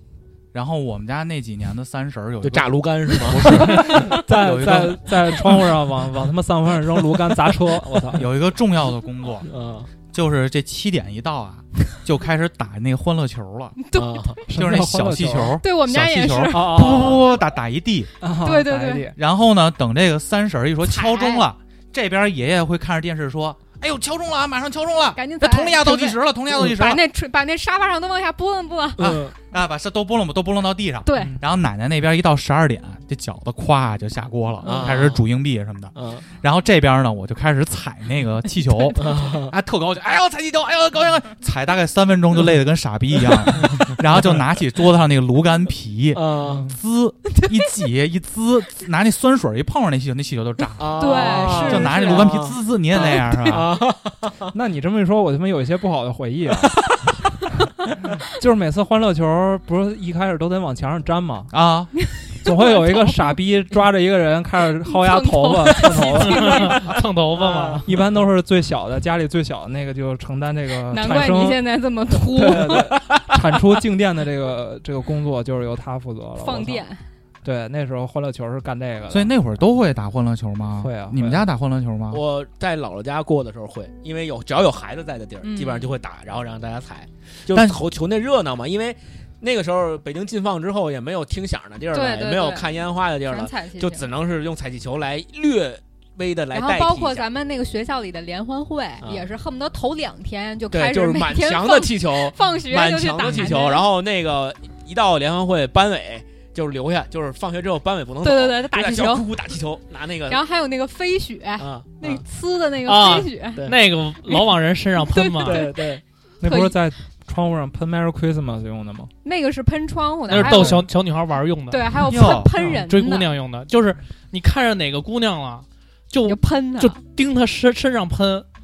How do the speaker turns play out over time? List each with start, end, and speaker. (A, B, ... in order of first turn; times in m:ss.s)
0:00.5-0:05.4 A
0:02.4-0:04.0 B
0:03.7-0:08.3 C
0:08.1-0:09.5 A
0:09.4-0:09.9 B
0:10.1-0:13.8 A
0:13.8-0:14.4 D
0:13.9-0:14.4 B
0:14.5-0:15.6 C
0:14.5-0:18.1 A
0:15.6-0:17.2 D
0:16.5-0:17.1 C
0:18.2-0:19.2 C
0:18.4-0:19.1 D
0:19.1-0:27.0 A
0:20.8-0:21.5 D
0:25.1-0:29.2 D
0:29.0-0:29.3 B
0:29.5-0:53.7 A
0:31.0-0:31.4 D
0:34.6-0:35.0 D
0:34.6-0:35.2 B
0:35.9-0:36.2 B
0:38.9-0:39.2 D
0:39.0-0:39.5 B
0:46.1-0:46.6 B
0:46.4-0:46.8 C
0:50.8-0:54.5 B
0:51.0-0:52.4 D
0:54.5-0:56.8 C
0:58.2-1:01.5 C
1:01.5-1:01.9 A
1:02.0-1:03.4 D
1:02.4-1:06.9 C
1:04.8-1:06.9 D
1:06.2-1:07.9 E
1:07.4-1:07.8 B
1:07.8-1:16.8 C
1:10.9-1:13.0 D
1:16.4-1:17.0 D
1:17.4-1:19.3 C
1:19.1-1:22.2 A
1:20.8-1:21.4 C
1:22.1-1:37.3 B
1:25.4-1:25.9 D
1:27.5-1:27.8 A
1:31.9-1:34.1 D
1:36.5-1:43.9 D
1:39.0-1:39.3 B
1:40.7-1:50.4 B
1:48.2-1:49.3 D
1:50.3-1:53.7 D
1:51.6-1:52.2 B
1:52.8-1:55.7 E
1:55.0-1:56.8 D
1:55.4-1:56.0 B
1:56.4-1:59.1 C
1:59.2-2:00.8 D
2:00.3-2:08.4 E
2:00.4-2:00.6 B
2:01.7-2:03.3 D
2:02.1-2:02.6 A
2:06.2-2:07.0 D